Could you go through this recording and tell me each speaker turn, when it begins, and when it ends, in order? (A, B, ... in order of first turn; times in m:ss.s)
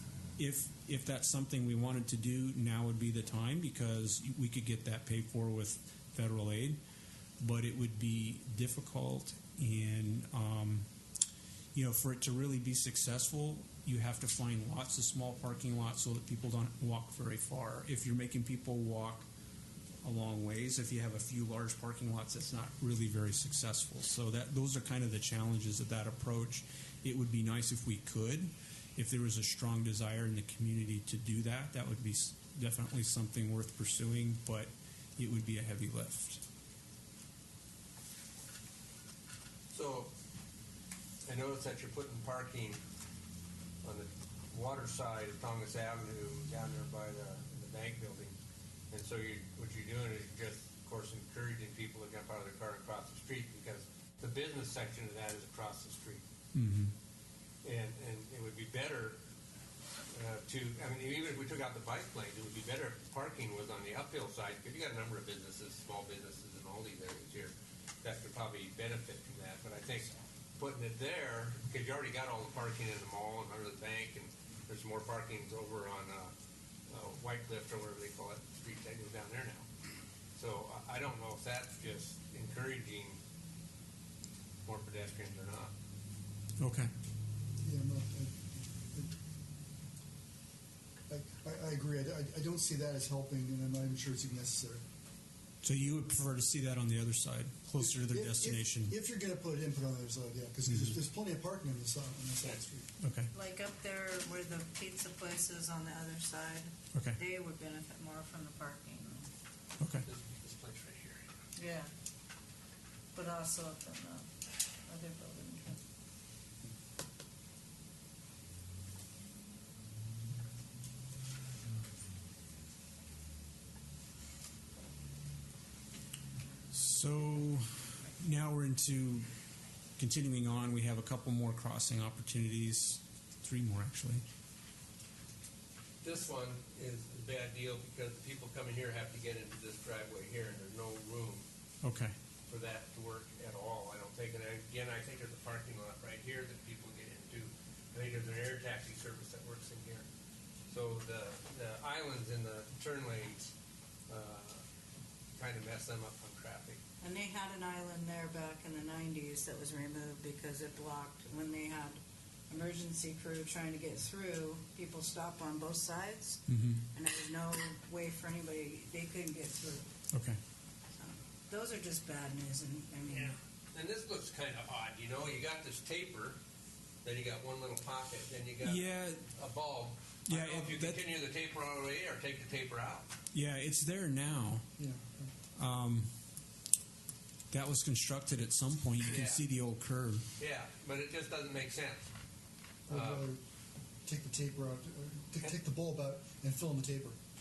0:00.4-0:06.8 A
0:07.4-0:10.9 A
0:11.7-0:19.3 A
0:20.0-0:36.4 A
0:39.7-0:40.1 B
0:41.3-0:42.8 B
0:43.8-0:48.4 B
0:48.9-0:56.2 B
0:56.5-0:56.9 A
0:57.6-0:59.2 B
1:00.1-1:16.3 B
1:16.9-1:19.7 B
1:20.4-1:23.2 B
1:24.6-1:25.7 B
1:26.6-1:26.9 A
1:27.6-1:29.1 C
1:31.1-1:34.8 C
1:35.6-1:39.0 A
1:37.8-1:42.9 C
1:40.7-1:41.0 A
1:43.0-1:43.3 A
1:43.3-1:49.3 D
1:46.9-1:47.2 A
1:49.8-1:50.1 A
1:50.0-1:51.3 B
1:51.6-1:51.9 D
1:53.1-1:54.3 D
1:54.9-1:55.8 D
2:06.7-2:09.3 A
2:10.0-2:14.2 A
2:16.0-2:21.5 B
2:21.8-2:22.1 A
2:22.5-2:30.1 B
2:30.7-2:33.5 B
2:34.1-2:34.6 B
2:35.4-2:36.8 B
2:37.0-2:46.4 D
2:46.5-2:46.8 A
2:46.9-2:49.9 D
2:50.1-2:50.4 A
2:51.0-2:53.4 D
2:53.1-2:56.4 B
2:57.0-3:03.1 B
2:58.6-2:59.2 A
3:00.3-3:01.0 A
3:03.3-3:04.6 A
3:04.8-3:05.3 C
3:05.6-3:06.1 A
3:07.5-3:10.2 A
3:09.1-3:09.4 B
3:10.4-3:12.1 B
3:12.9-3:13.4 C
3:12.9-3:13.3 B
3:14.0-3:17.2 C